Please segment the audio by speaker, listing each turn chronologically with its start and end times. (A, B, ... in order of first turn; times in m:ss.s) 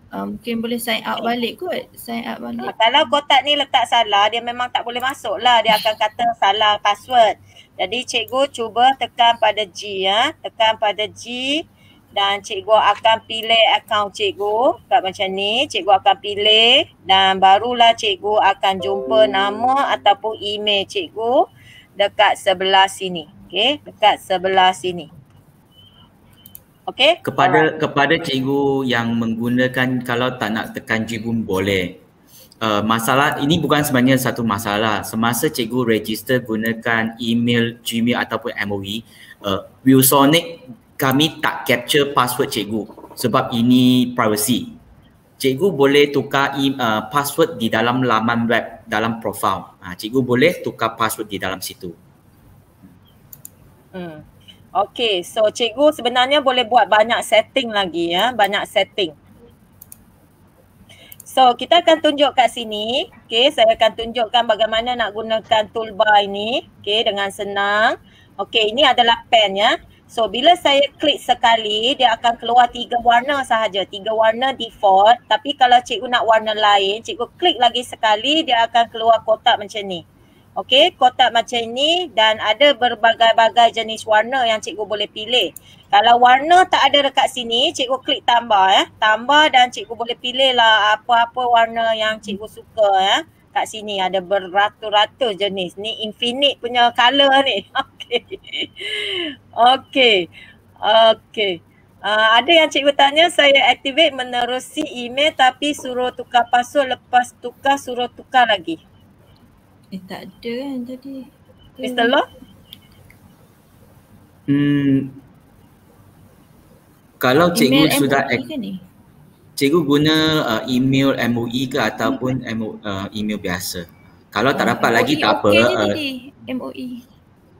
0:00.1-0:02.7 A
0:02.6-0:21.4 B
0:22.0-0:25.1 B
0:26.9-0:27.6 B
0:27.2-0:32.0 C
0:32.6-0:44.8 C
0:45.4-0:52.0 C
0:53.9-0:54.2 B
0:54.8-0:59.1 B
1:01.3-1:20.0 B
1:20.6-1:40.2 B
1:40.8-1:48.8 B
1:49.9-1:51.2 A
1:51.8-1:52.1 A
1:51.8-1:52.2 B
1:54.5-1:55.2 C
1:57.2-1:58.4 C
1:57.5-1:58.8 A
1:59.6-2:06.0 C
2:04.5-2:07.0 A